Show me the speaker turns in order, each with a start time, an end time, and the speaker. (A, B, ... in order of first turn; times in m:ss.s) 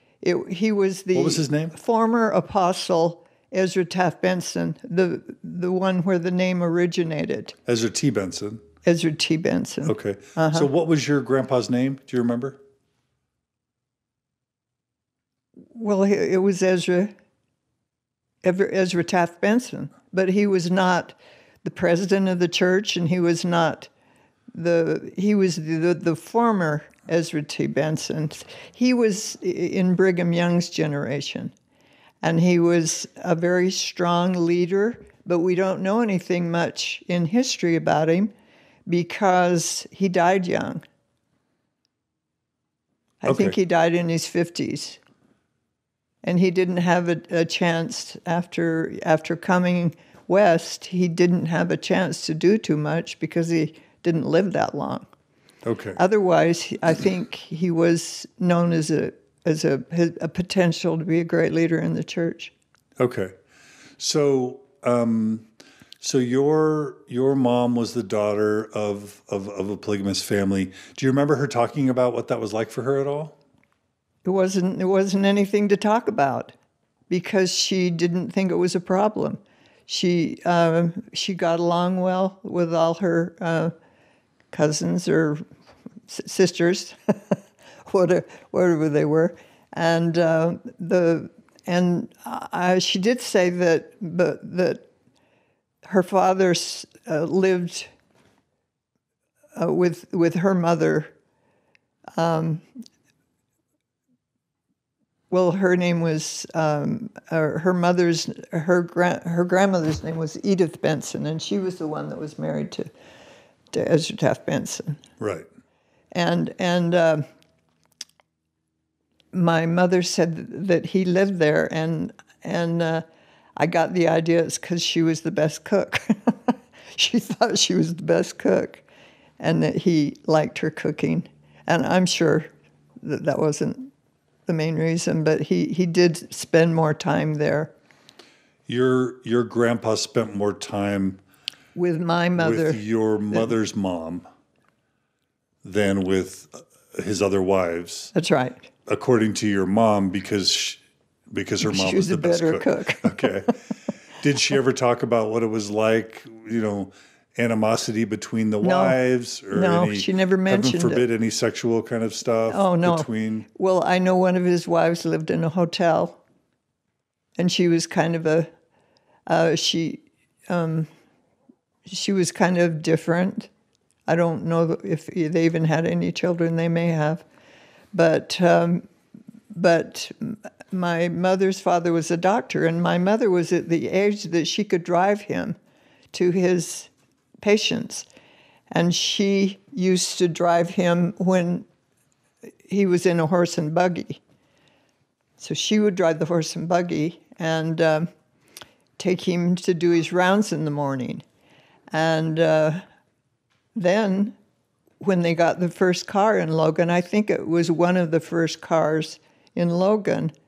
0:00.2-0:07.5 A
0:01.1-0:01.8 B
0:07.6-0:08.6 B
0:08.8-0:10.7 A
0:09.8-0:12.6 B
0:15.7-0:17.1 A
0:18.4-0:23.9 A
0:24.5-0:31.5 A
0:32.2-0:38.3 A
0:38.9-0:40.8 A
0:43.2-0:45.0 A
0:43.2-0:43.6 B
0:46.2-0:55.1 A
0:55.6-0:56.0 B
0:56.0-1:02.5 A
1:03.0-1:03.3 B
1:04.0-1:05.5 B
1:06.0-1:13.4 B
1:14.2-1:16.5 A
1:17.1-1:23.7 A
1:24.5-1:25.4 A
1:26.1-1:34.8 A
1:35.8-1:37.9 A
1:39.6-1:41.1 A
1:42.2-1:42.6 A
1:45.3-1:52.9 A
1:53.7-1:55.0 A
1:55.2-1:55.5 B
1:56.1-1:57.2 A
1:59.3-2:03.0 A
2:03.6-2:08.8 A
2:09.4-2:13.9 A
2:14.5-2:17.7 A
2:18.7-2:21.2 B
2:21.7-2:23.5 A
2:22.4-2:24.2 B
2:25.6-2:28.1 B
2:28.1-2:28.7 A
2:28.8-2:30.8 B
2:31.3-2:33.6 B
2:31.6-2:33.5 A
2:34.1-2:43.4 B
2:38.6-2:39.0 A
2:39.5-2:41.0 A
2:42.5-2:46.2 A
2:47.4-2:48.5 A
2:49.3-2:50.9 A
2:51.8-2:53.5 A
2:54.1-2:57.2 A
2:57.9-2:58.8 A
2:59.5-3:05.6 A
3:06.1-3:06.9 A
3:07.4-3:08.1 A
3:08.7-3:11.7 A
3:12.7-3:14.2 A
3:15.4-3:18.1 A
3:19.0-3:21.2 A
3:21.9-3:22.8 A
3:23.8-3:24.4 A
3:25.0-3:30.3 A